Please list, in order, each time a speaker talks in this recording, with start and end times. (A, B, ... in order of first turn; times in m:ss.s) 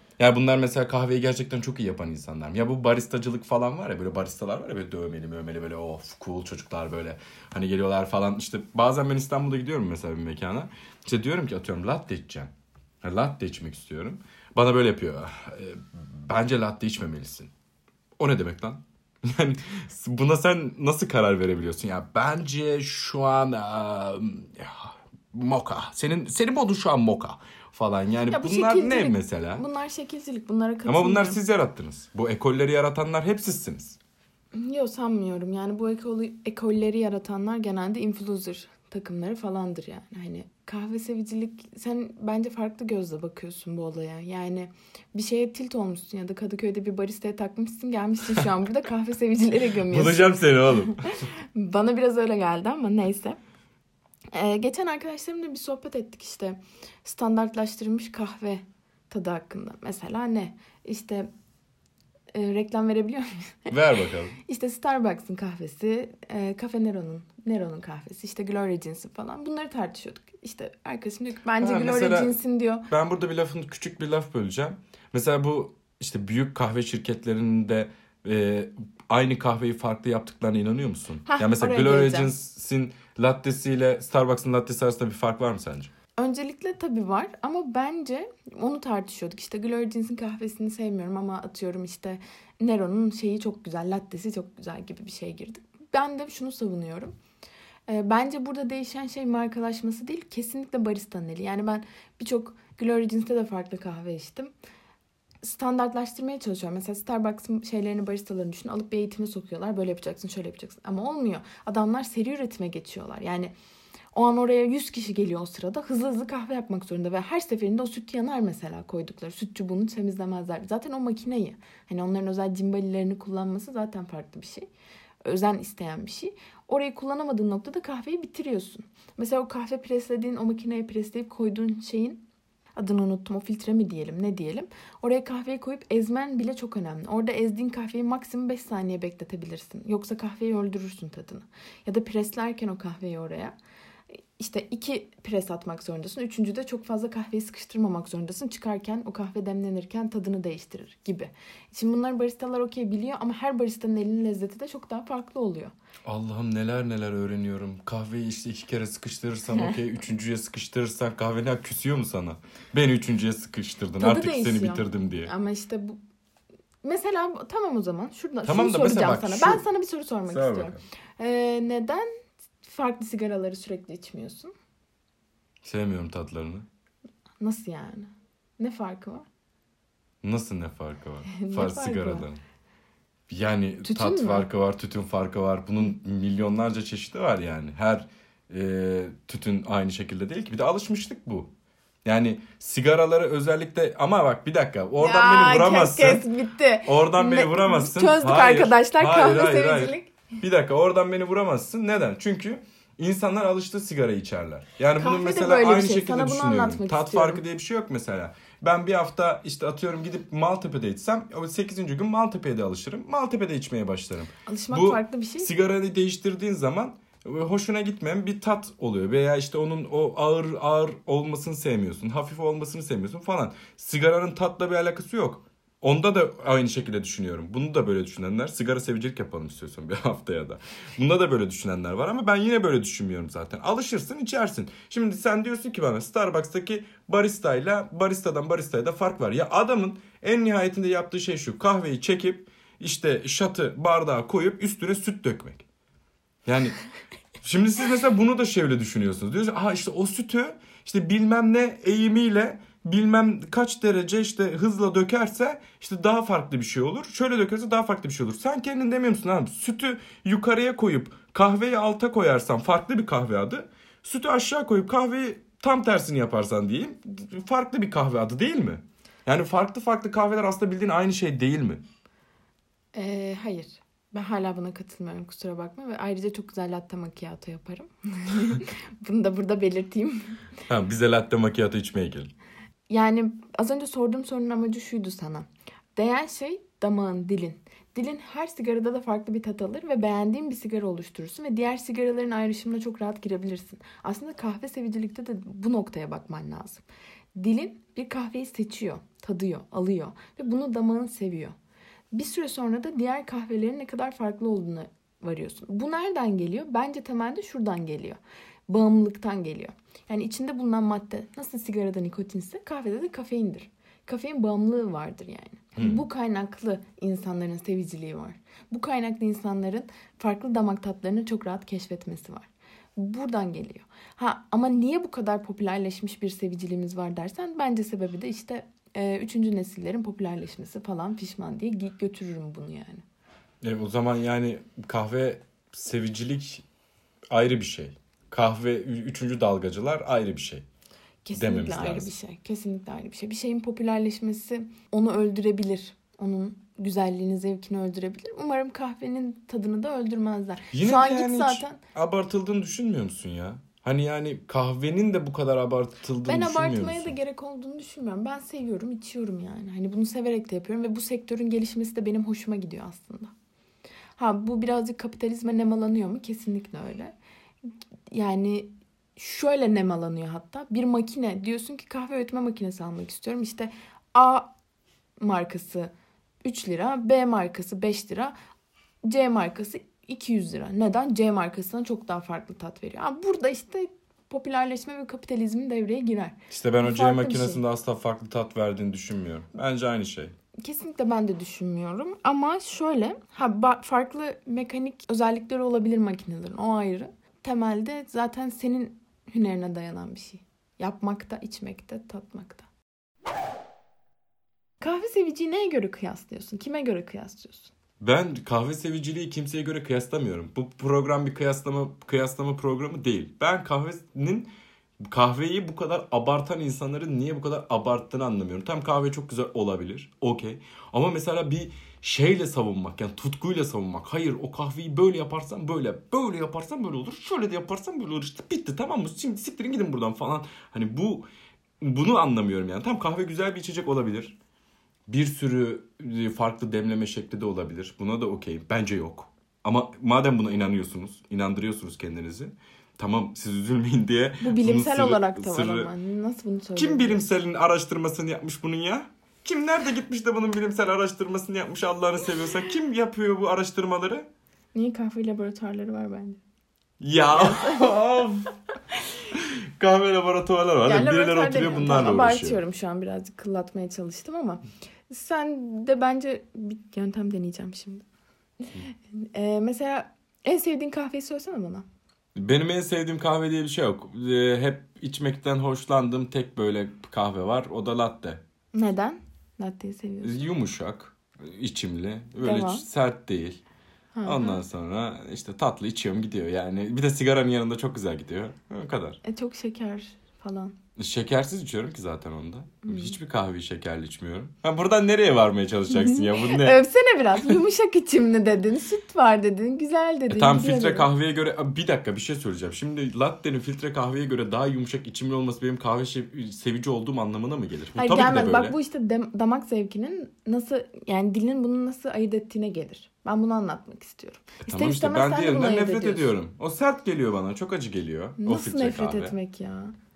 0:00.2-0:17.5 A
0:18.2-0:29.6 A
0:28.3-0:31.4 B
0:30.9-0:34.0 A
0:34.5-0:53.4 B
0:49.9-0:51.0 A
0:54.3-1:01.3 B
1:02.3-1:03.8 B
1:03.7-1:04.4 A
1:04.4-1:12.9 B
1:11.6-1:12.4 A
1:12.9-1:25.9 A
1:21.3-1:22.3 B
1:26.2-1:37.2 B
1:37.9-1:44.5 B
1:45.4-1:53.5 B
1:54.1-2:04.7 B
2:05.2-2:12.2 B
2:12.8-2:23.6 B
2:24.4-2:35.7 B
2:36.0-2:45.3 A
2:44.0-2:46.0 B
2:46.8-2:52.1 B
2:48.4-2:49.6 A
2:50.3-2:50.8 A
2:52.6-2:54.5 B
2:55.6-2:56.7 A
2:57.4-2:59.3 B
3:00.2-3:02.4 A
3:01.3-3:02.3 B
3:03.3-3:11.5 A
3:03.8-3:04.5 B
3:12.0-3:16.3 A
3:15.0-3:20.1 B
3:16.8-4:05.7 A
3:25.0-3:27.4 B
3:34.5-3:35.5 B
4:06.5-4:06.8 A
4:07.4-4:31.8 A
4:32.9-4:40.3 B
4:40.7-4:42.3 A
4:42.9-4:56.8 B
4:57.4-5:01.6 B
5:02.1-5:33.0 B
5:15.8-5:16.0 A
5:33.6-5:36.6 A
5:37.3-5:40.7 A
5:41.2-5:51.8 B
5:41.4-5:42.1 A
5:50.7-5:57.2 A
5:56.2-6:03.3 B
6:04.2-6:07.2 B
6:08.1-6:14.5 B
6:15.2-6:15.9 B
6:16.4-6:18.4 B
6:19.0-6:27.6 B
6:26.5-6:30.3 A
6:30.6-6:42.7 B
6:44.8-6:47.7 B
6:48.0-6:54.5 A
6:55.0-7:11.3 A
7:11.8-7:14.4 A
7:15.1-7:25.9 A
7:24.4-7:27.2 B
7:26.8-7:34.3 A
7:34.7-7:36.4 B
7:37.0-7:38.5 A
7:37.3-7:38.0 B
7:39.3-7:42.6 A
7:40.8-7:48.1 B
7:48.7-7:51.9 B
7:52.4-7:58.4 A
7:58.7-8:00.4 B
8:00.2-8:03.6 A
8:02.4-8:02.9 B
8:04.1-8:04.6 B
8:04.2-8:09.2 A
8:09.2-8:10.8 B
8:11.0-8:16.8 A
8:12.8-8:13.2 B
8:15.9-8:21.1 B
8:20.3-8:28.8 A
8:28.0-8:36.3 B
8:34.6-8:39.4 A
8:38.4-8:39.9 B